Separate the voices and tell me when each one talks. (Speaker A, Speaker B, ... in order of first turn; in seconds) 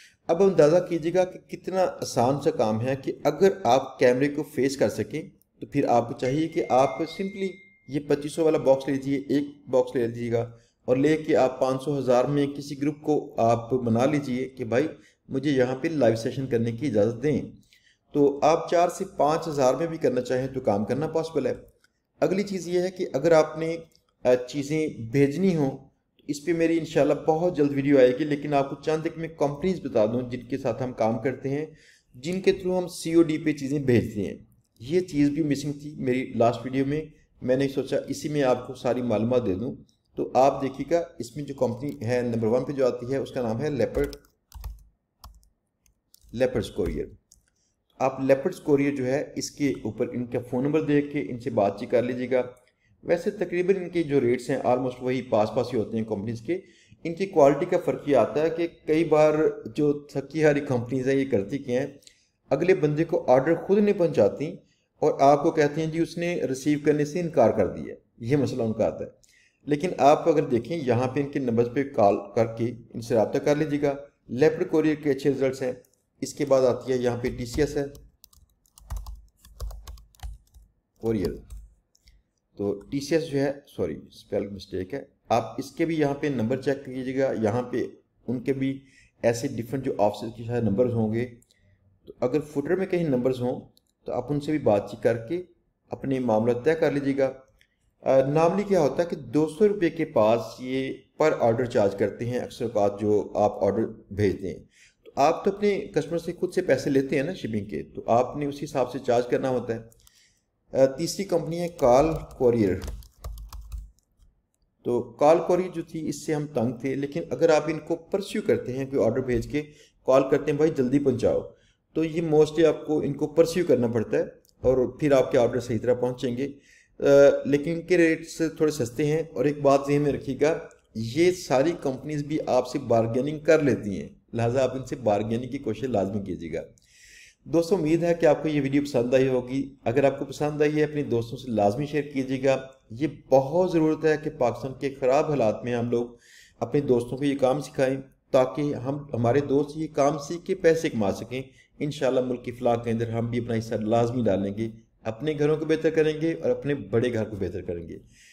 Speaker A: 0.3-17.6, 18.1-21.6, 22.2-44.2, 46.3-47.1, 48.0-52.5, 53.0-62.0, 62.5-69.1, 69.7-77.9, 81.0-81.4, 82.5-91.4, 92.0-97.4, 98.0-109.9, 110.7-112.9, 114.8-136.7, 137.4-158.0